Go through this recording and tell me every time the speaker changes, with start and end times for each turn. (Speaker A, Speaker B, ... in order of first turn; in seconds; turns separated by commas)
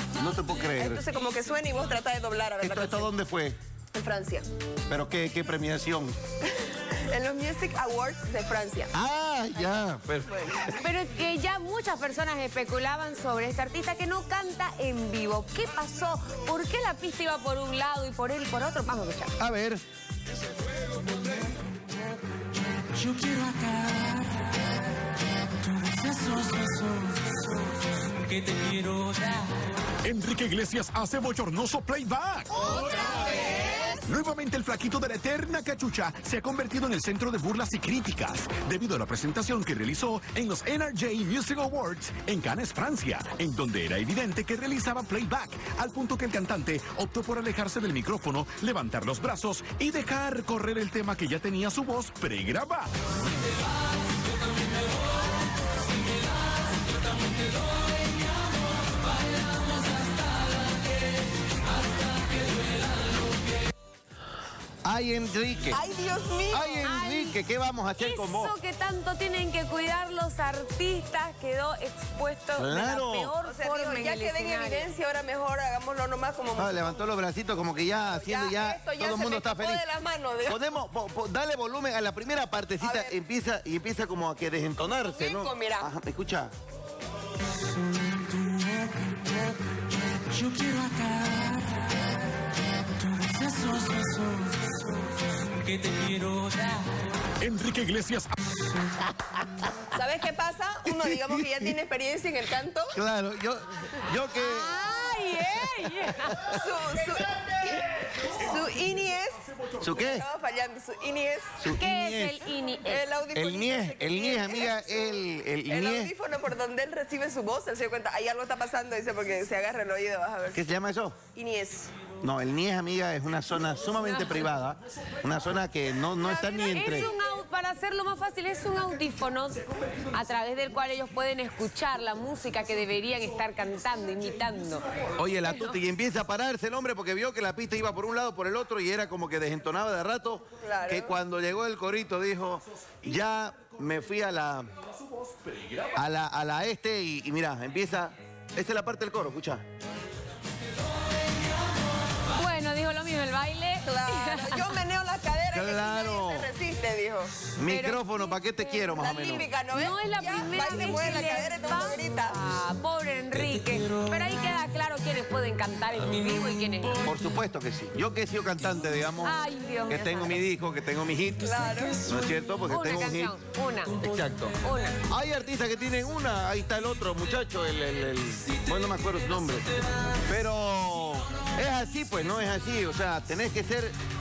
Speaker A: 0.1-1.0, Speaker B: 0.8-3.1, Speaker A: 2.6-3.6, Speaker B: 3.9-4.5, Speaker A: 4.9-6.2, Speaker B: 6.5-8.9, Speaker A: 8.9-10.3, Speaker B: 9.6-10.7, Speaker C: 10.8-19.3, Speaker A: 19.4-19.8, Speaker D: 23.0-24.5, Speaker D: 25.7-27.4, Speaker D: 28.2-29.2, Speaker E: 30.0-33.3, Speaker E: 34.0-52.9, Speaker A: 64.8-65.8, Speaker B: 65.7-66.9, Speaker A: 66.5-68.5, Speaker C: 66.8-67.3, Speaker C: 68.0-74.9, Speaker A: 72.5-73.3, Speaker B: 73.4-77.0, Speaker A: 76.5-79.8, Speaker B: 78.0-80.6, Speaker A: 80.5-86.5, Speaker B: 82.8-83.1, Speaker B: 84.8-85.9, Speaker D: 88.1-89.2, Speaker D: 90.3-91.8, Speaker D: 93.1-94.6, Speaker D: 95.6-96.5, Speaker E: 97.4-98.3, Speaker B: 99.9-103.0, Speaker A: 102.9-104.8, Speaker C: 104.3-106.5, Speaker A: 106.1-106.4, Speaker B: 106.5-109.4, Speaker A: 109.8-110.2, Speaker B: 109.9-111.7, Speaker A: 111.6-112.4, Speaker C: 111.7-113.0, Speaker B: 112.8-120.6, Speaker A: 113.3-116.1, Speaker A: 120.5-121.2, Speaker B: 121.3-121.9, Speaker A: 122.2-127.1, Speaker C: 126.2-134.8, Speaker B: 126.4-127.1, Speaker A: 135.2-144.7, Speaker C: 135.4-135.8, Speaker B: 140.6-141.1, Speaker E: 145.2-145.9, Speaker A: 145.9-149.6, Speaker C: 152.3-154.8, Speaker B: 153.8-157.4, Speaker A: 155.5-156.5, Speaker A: 157.6-159.5, Speaker C: 157.6-158.4, Speaker B: 158.8-162.4, Speaker C: 159.7-167.1, Speaker A: 167.0-173.3, Speaker C: 169.2-170.4, Speaker B: 171.4-172.1, Speaker C: 172.6-173.9, Speaker A: 174.0-174.5, Speaker C: 174.6-175.0, Speaker A: 175.1-179.7, Speaker A: 180.2-183.9